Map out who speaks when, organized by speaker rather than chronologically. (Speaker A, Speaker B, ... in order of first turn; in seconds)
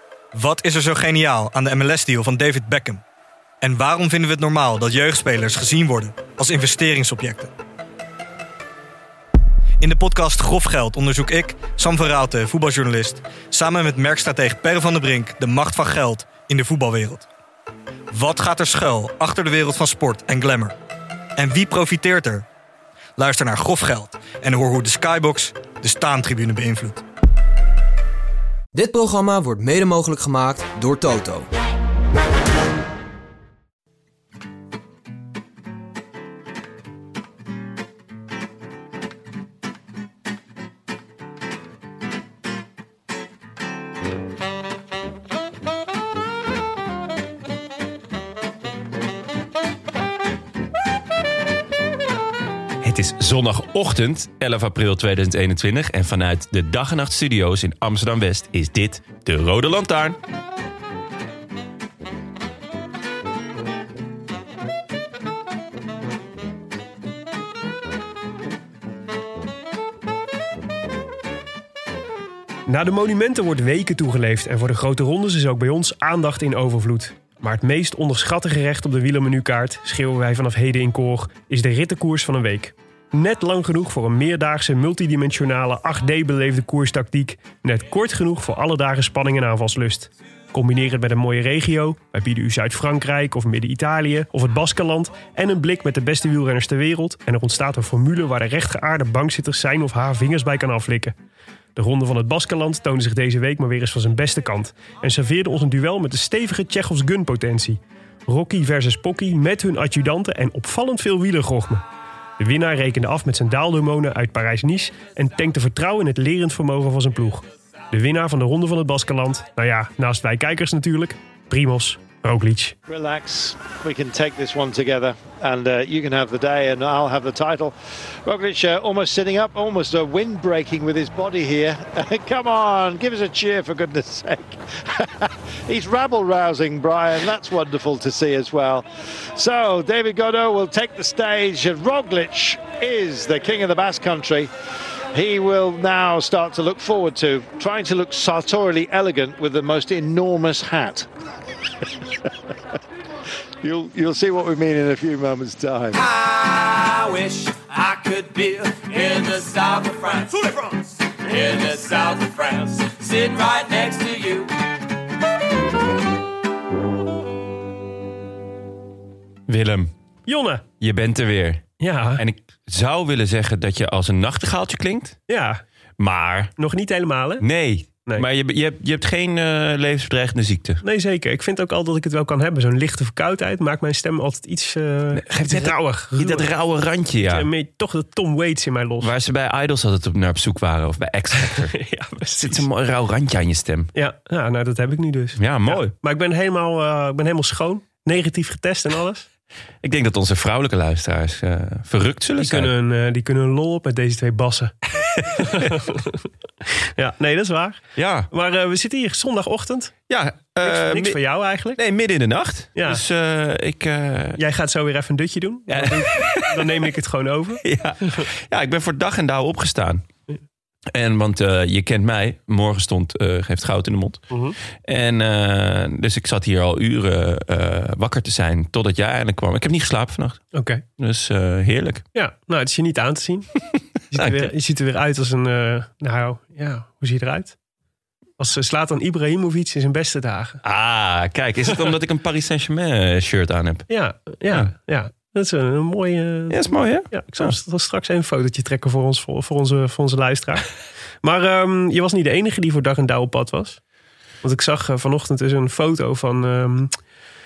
Speaker A: 0.3-3.0, 3.6-7.5, 9.8-17.2, 18.1-20.7, 21.4-22.4, 23.2-27.0
Speaker B: 28.7-31.5
Speaker C: 52.8-60.2, 169.5-169.9, 170.8-175.2, 176.0-176.5, 177.4-180.8, 185.1-187.5, 189.0-191.8, 192.3-193.9, 195.4-195.9, 199.8-202.7, 205.1-205.7, 207.9-208.3, 210.1-211.2, 211.7-214.4, 215.7-216.8, 217.6-220.0, 220.9-224.2, 224.8-230.4, 231.0-232.0, 234.1-234.5, 240.6-243.9, 246.5-247.6
Speaker D: 72.7-101.1, 101.8-111.8, 112.4-122.8, 170.3-170.6, 171.8-172.2, 175.3-175.6, 176.6-177.4, 180.8-186.5, 187.2-189.1, 191.5-192.7, 193.9-199.3, 202.4-204.7, 205.2-209.9, 210.6-211.8, 212.8-213.0, 214.4-218.3, 224.3-224.6, 230.5-230.8, 232.1-233.5, 234.1-237.6, 238.4-240.6, 243.9-250.7, 251.2-253.8, 254.4-257.0
Speaker E: 122.9-144.5, 145.1-151.1, 153.6-156.0
Speaker F: 155.9-164.5